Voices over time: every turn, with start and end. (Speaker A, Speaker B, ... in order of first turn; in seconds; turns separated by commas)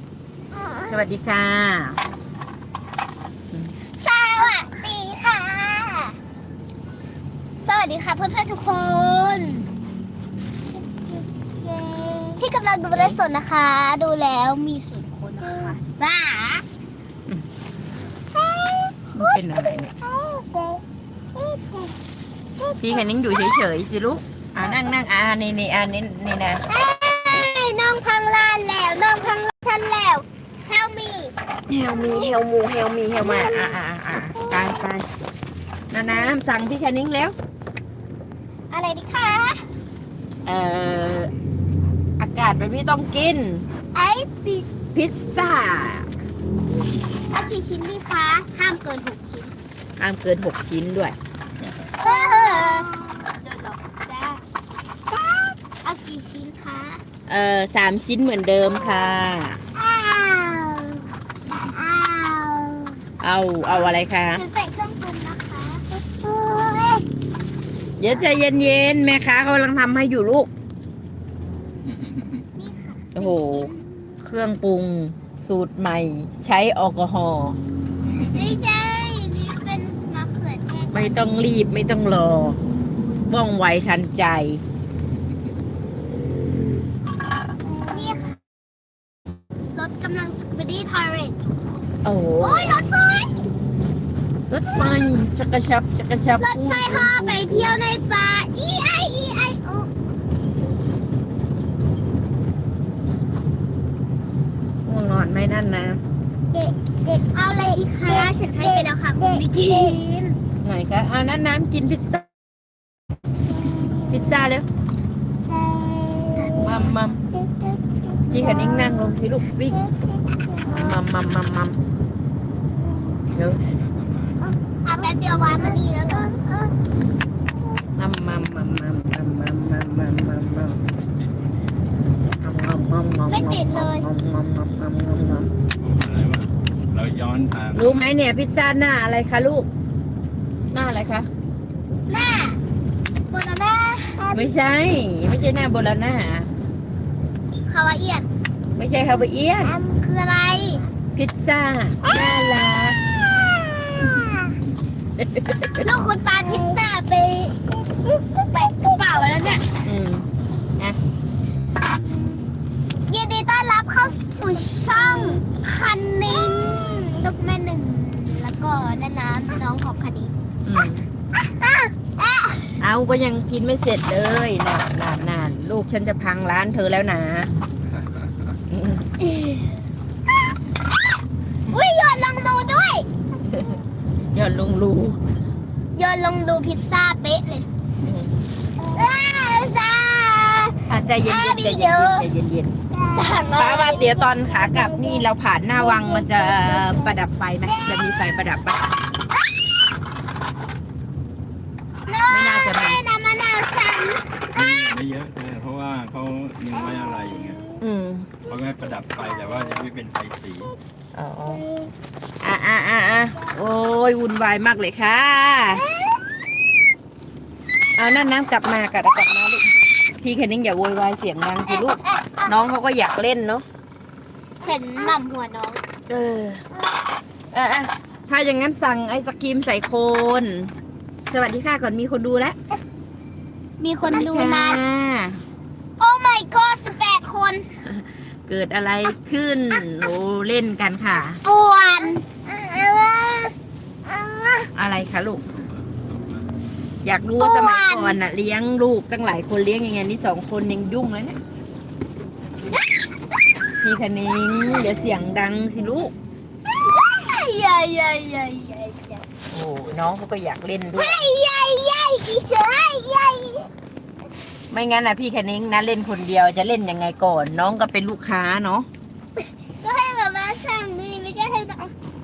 Speaker A: 0.6-0.9, Speaker B: 0.9-2.0, Speaker A: 4.0-6.2, Speaker A: 7.6-9.7, Speaker A: 11.8-16.6, Speaker B: 12.9-13.2, Speaker A: 18.3-19.4, Speaker B: 19.1-19.9, Speaker A: 20.0-20.8, Speaker A: 21.4-21.8, Speaker B: 22.8-26.6, Speaker A: 26.7-31.3, Speaker B: 31.7-35.0, Speaker B: 35.9-37.3, Speaker A: 38.7-39.6, Speaker B: 40.5-41.3, Speaker B: 42.2-43.6, Speaker A: 43.9-44.6, Speaker B: 44.9-46.1, Speaker A: 47.3-49.5, Speaker B: 50.0-51.1, Speaker A: 52.0-54.4, Speaker A: 55.1-57.0, Speaker B: 57.3-59.6, Speaker A: 59.8-61.0, Speaker A: 61.7-63.0, Speaker B: 63.2-64.4, Speaker A: 64.3-67.0, Speaker B: 68.0-70.5, Speaker C: 71.9-72.3, Speaker A: 72.6-73.8, Speaker B: 73.1-73.7, Speaker B: 74.2-77.6, Speaker C: 78.0-78.5, Speaker A: 78.3-81.2, Speaker B: 80.9-82.6, Speaker B: 83.3-84.6, Speaker A: 87.9-88.4, Speaker A: 89.7-91.6, Speaker B: 92.0-92.8, Speaker A: 92.4-93.3, Speaker B: 94.5-97.8, Speaker A: 96.4-99.9, Speaker B: 104.8-106.0, Speaker A: 106.5-110.3, Speaker B: 110.6-112.3, Speaker B: 114.1-114.6, Speaker A: 116.2-116.9, Speaker B: 116.5-117.2, Speaker B: 118.3-119.8, Speaker B: 120.6-121.8, Speaker B: 123.3-123.6, Speaker C: 123.6-124.4, Speaker A: 124.8-126.4, Speaker B: 128.0-130.8, Speaker C: 130.8-131.7, Speaker B: 132.4-135.5, Speaker A: 133.3-134.0, Speaker C: 135.8-138.0, Speaker B: 137.7-139.7, Speaker B: 140.7-141.3, Speaker A: 142.1-142.6, Speaker A: 143.3-144.5, Speaker B: 144.3-146.5, Speaker A: 147.7-148.3, Speaker B: 148.8-149.7, Speaker A: 149.6-150.8, Speaker B: 151.1-153.0, Speaker A: 153.9-154.5, Speaker B: 155.2-155.8, Speaker A: 155.8-159.6, Speaker B: 159.8-160.3, Speaker A: 163.1-170.3, Speaker B: 170.6-171.0, Speaker A: 172.2-172.8, Speaker B: 172.8-177.5, Speaker C: 177.9-178.3, Speaker B: 178.7-179.1, Speaker A: 179.2-179.6, Speaker A: 181.7-183.1, Speaker B: 184.3-185.2, Speaker A: 186.0-187.7, Speaker B: 188.0-188.3, Speaker A: 188.8-192.3, Speaker B: 190.9-192.7, Speaker A: 193.0-194.5, Speaker B: 193.5-198.8, Speaker A: 195.9-196.9, Speaker A: 202.1-204.2, Speaker B: 202.3-203.0, Speaker C: 204.5-207.6, Speaker B: 207.8-208.3, Speaker C: 208.4-210.7, Speaker B: 211.1-211.6, Speaker B: 212.4-215.8, Speaker B: 218.0-219.7, Speaker B: 220.2-223.6, Speaker A: 221.7-222.5, Speaker A: 224.6-225.8, Speaker B: 226.1-226.6, Speaker B: 227.5-230.7, Speaker B: 231.3-232.6, Speaker A: 233.8-234.8, Speaker B: 234.0-235.4, Speaker A: 236.0-237.7, Speaker B: 237.9-241.4, Speaker A: 241.4-243.5, Speaker A: 244.1-244.7, Speaker B: 244.7-245.4, Speaker C: 245.5-246.5, Speaker B: 247.0-251.4, Speaker A: 247.4-248.2, Speaker A: 252.7-253.0, Speaker B: 253.8-256.1, Speaker A: 256.7-259.2, Speaker B: 259.5-261.2, Speaker A: 260.9-263.7, Speaker B: 264.7-268.9, Speaker A: 269.8-271.9